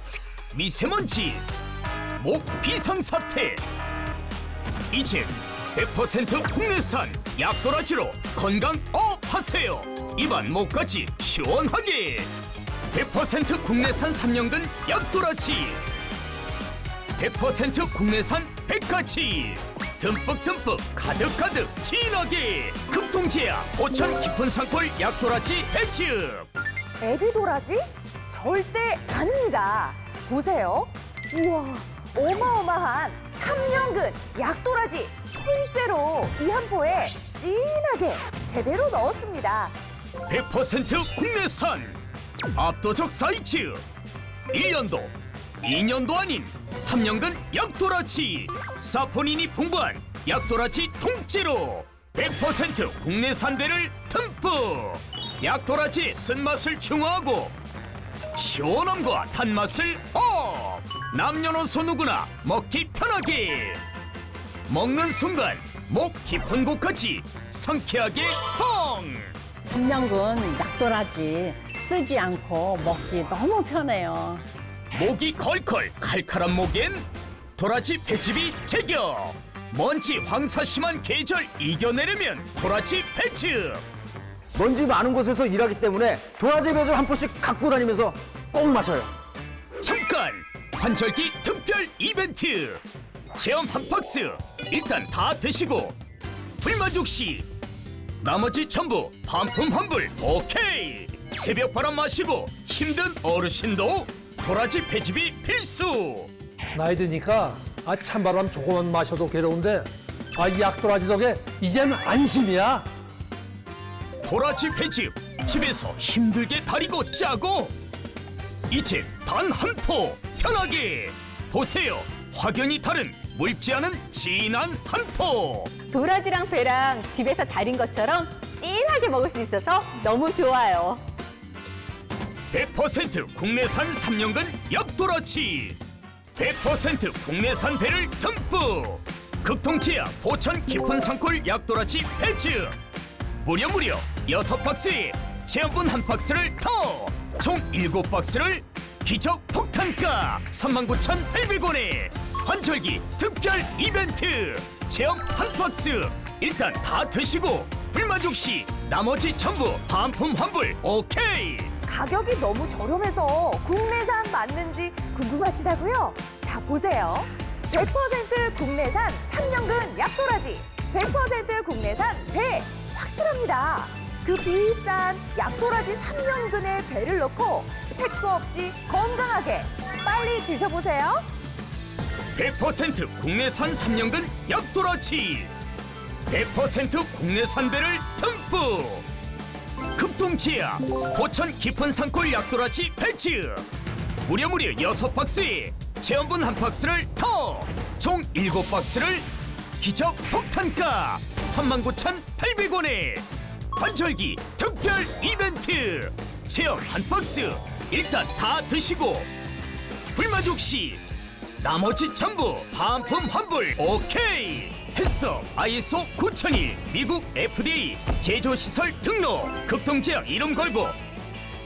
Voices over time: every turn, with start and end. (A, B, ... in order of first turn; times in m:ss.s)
0:00.5-0:01.4 A
0:02.2-0:03.6 A
0:04.9-0:12.3 A
0:12.9-0:15.8 A
0:17.2-0:26.5 A
0:27.0-0:39.7 B
0:40.3-0:42.0 A
0:42.6-0:43.8 A
0:44.5-0:57.5 A
0:58.3-1:03.8 A
1:04.7-1:09.3 A
1:09.6-1:14.4 C
1:14.9-1:23.8 A
1:24.6-1:29.1 D
1:29.8-1:32.8 A
1:33.3-1:36.0 A
1:36.6-1:37.5 A
1:38.2-1:46.3 A
1:46.7-1:52.8 E
1:54.2-1:57.7 A
1:58.7-2:05.7 A
2:05.9-2:11.0 F
2:12.5-2:15.8 A
2:16.4-2:22.8 A
2:23.4-2:41.7 A
2:41.9-3:01.2 B
3:02.3-3:05.5 A
3:06.3-3:09.0 A
3:10.0-3:13.6 A
3:14.2-3:19.2 A
3:19.8-3:29.3 A
3:30.1-3:31.0 A
3:31.6-3:41.0 A